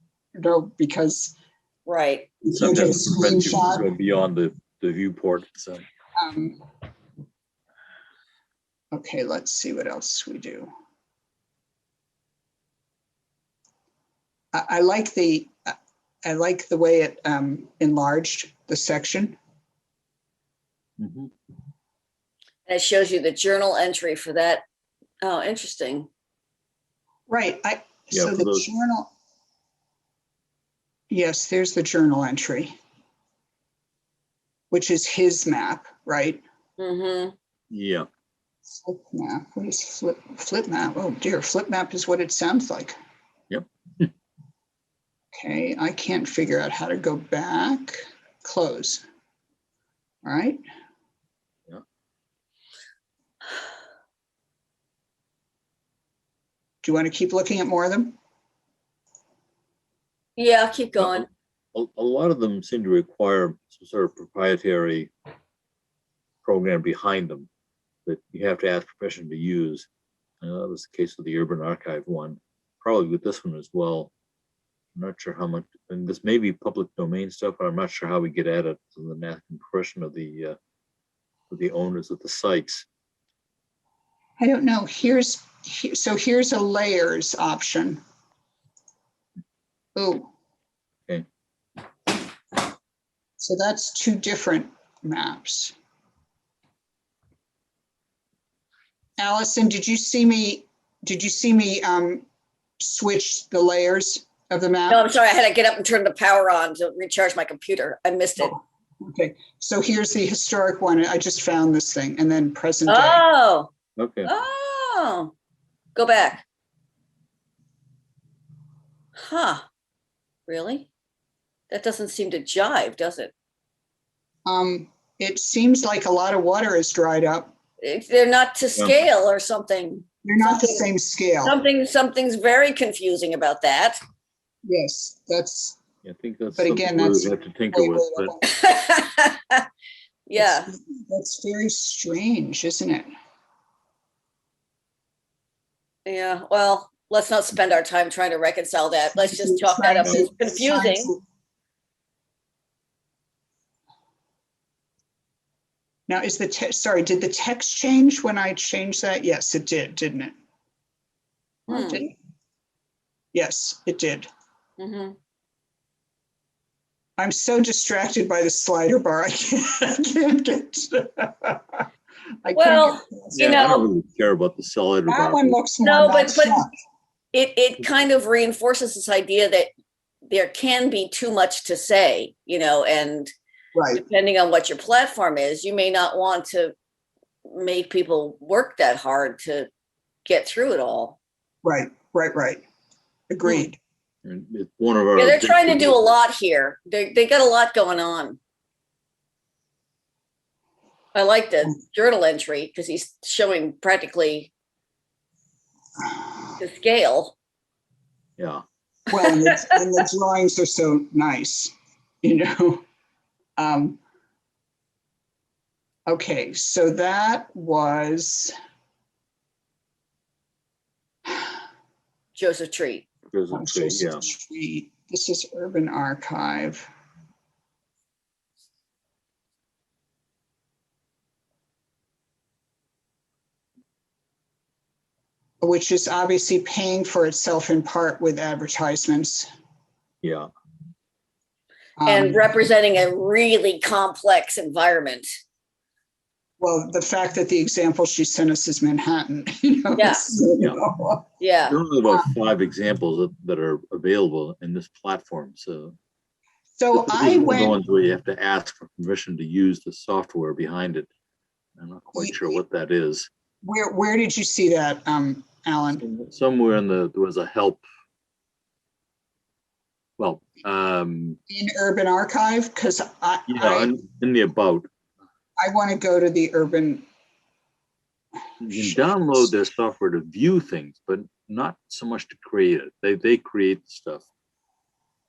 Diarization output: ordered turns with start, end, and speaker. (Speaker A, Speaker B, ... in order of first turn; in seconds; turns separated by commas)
Speaker A: 0.4-1.4, Speaker B: 1.9-2.3, Speaker A: 2.4-3.9, Speaker C: 2.5-5.8, Speaker A: 6.2-6.6, Speaker A: 8.9-10.7, Speaker A: 14.5-19.4, Speaker C: 21.0-21.3, Speaker B: 22.7-24.6, Speaker B: 25.2-26.1, Speaker A: 27.3-29.1, Speaker C: 28.1-28.7, Speaker A: 31.1-32.7, Speaker A: 34.7-36.4, Speaker B: 36.8-37.3, Speaker C: 37.7-38.0, Speaker A: 38.7-42.9, Speaker C: 43.5-44.1, Speaker A: 45.3-49.0, Speaker A: 50.2-50.6, Speaker A: 56.8-58.1, Speaker B: 60.4-61.3, Speaker C: 61.0-65.1, Speaker C: 66.4-67.5, Speaker C: 68.0-69.9, Speaker C: 70.4-74.1, Speaker C: 74.9-80.5, Speaker C: 81.5-82.8, Speaker A: 84.4-88.0, Speaker A: 89.9-90.3, Speaker A: 93.4-95.7, Speaker A: 99.2-102.2, Speaker A: 102.8-105.1, Speaker B: 104.9-108.6, Speaker A: 108.4-113.2, Speaker B: 112.9-113.7, Speaker C: 114.0-114.3, Speaker B: 114.2-115.3, Speaker B: 115.9-116.4, Speaker B: 119.2-119.6, Speaker B: 120.5-120.9, Speaker B: 121.7-123.3, Speaker A: 124.5-127.5, Speaker B: 127.8-130.9, Speaker A: 130.2-131.6, Speaker B: 131.4-134.0, Speaker A: 134.6-135.8, Speaker C: 136.0-138.3, Speaker A: 136.6-138.8, Speaker B: 138.5-139.7, Speaker B: 140.3-140.7, Speaker A: 140.3-143.1, Speaker B: 146.1-151.1, Speaker A: 149.2-151.2, Speaker A: 156.1-160.3, Speaker B: 161.7-162.0, Speaker A: 161.7-162.1, Speaker A: 163.3-164.3, Speaker B: 164.8-165.2, Speaker A: 167.2-171.8, Speaker A: 172.4-173.5, Speaker B: 172.5-173.8, Speaker C: 173.3-175.6, Speaker A: 175.1-176.7, Speaker B: 175.8-176.6, Speaker B: 177.3-179.7, Speaker B: 180.3-183.3, Speaker A: 183.7-184.0, Speaker B: 183.9-186.7, Speaker B: 187.5-189.7, Speaker B: 190.2-191.2, Speaker A: 191.6-192.6, Speaker A: 193.3-193.8, Speaker C: 194.2-196.1, Speaker B: 195.2-198.4, Speaker B: 201.1-204.5, Speaker B: 206.6-207.3, Speaker C: 208.4-208.6, Speaker A: 209.1-212.8, Speaker B: 209.1-209.8, Speaker A: 213.6-214.0, Speaker A: 216.1-218.5, Speaker B: 222.3-223.1, Speaker C: 223.3-224.2, Speaker A: 223.5-226.9, Speaker A: 235.6-239.5, Speaker C: 240.2-240.5, Speaker A: 242.0-242.4, Speaker B: 242.1-245.2, Speaker A: 246.6-251.3, Speaker B: 249.9-250.2, Speaker B: 251.4-251.8, Speaker C: 251.6-255.9, Speaker A: 256.8-257.8, Speaker C: 256.9-261.1, Speaker C: 261.8-263.3, Speaker A: 263.6-266.0, Speaker C: 266.0-267.8, Speaker C: 270.2-271.4, Speaker A: 271.5-273.9, Speaker C: 273.5-274.9, Speaker A: 275.6-277.0, Speaker C: 278.6-284.2, Speaker A: 278.7-279.5